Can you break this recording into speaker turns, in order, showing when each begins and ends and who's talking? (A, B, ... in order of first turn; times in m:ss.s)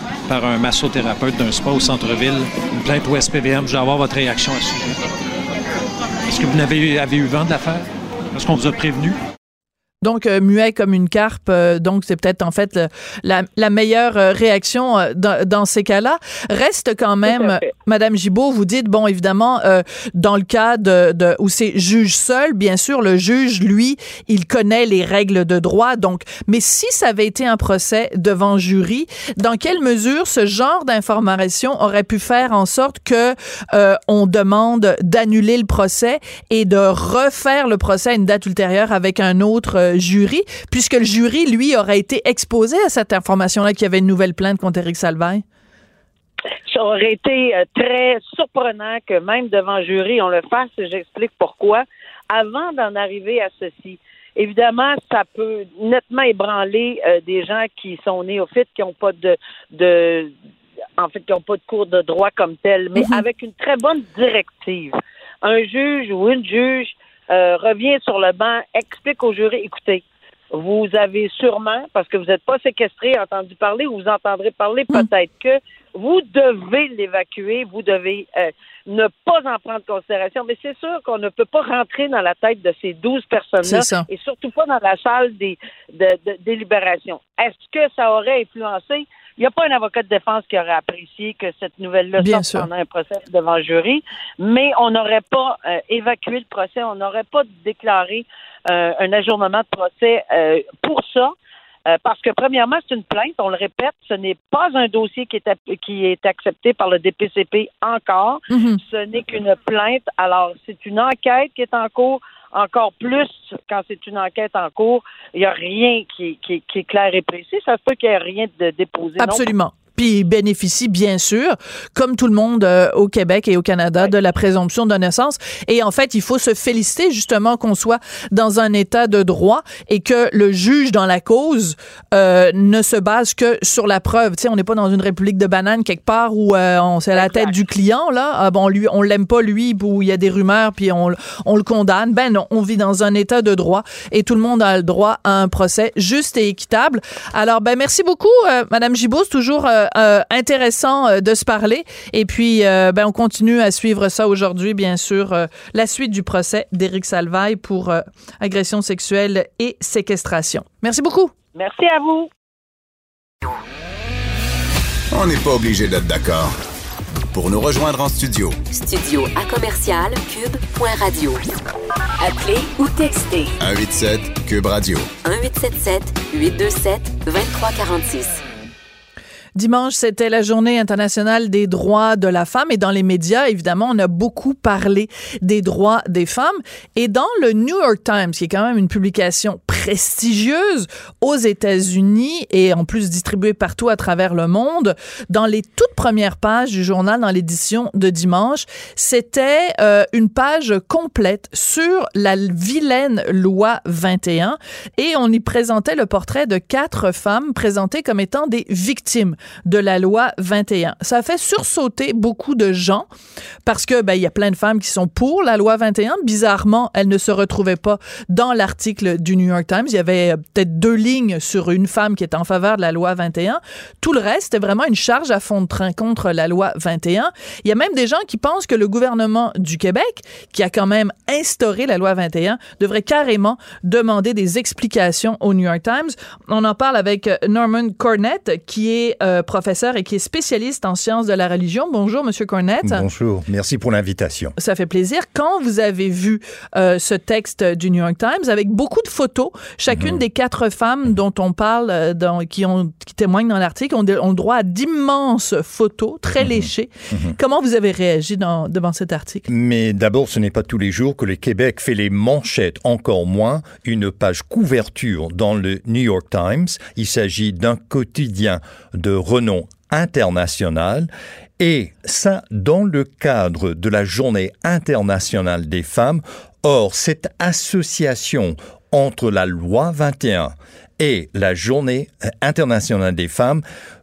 0:00.3-0:05.0 A
0:06.3-0:09.2 A
0:10.0-0:45.4 B
0:17.3-0:17.7 C
0:46.7-1:00.3 C
1:01.0-1:41.3 C
1:23.6-1:24.1 B
1:32.2-1:32.7 B
1:41.9-1:59.5 C
1:48.5-1:48.8 B
1:59.2-2:41.3 B
2:17.2-2:17.6 C
2:41.6-2:42.3 C
2:45.1-2:46.6 D
2:47.3-2:48.6 D
2:48.7-2:51.5 E
2:52.2-2:53.6 E
2:53.6-2:55.1 D
2:55.2-2:58.4 E
2:59.6-3:33.1 B
3:33.6-4:03.0 B
4:02.8-4:04.6 F
4:04.6-4:19.5 B
4:09.9-4:10.2 F
4:16.4-4:16.7 F
4:19.5-4:43.6 F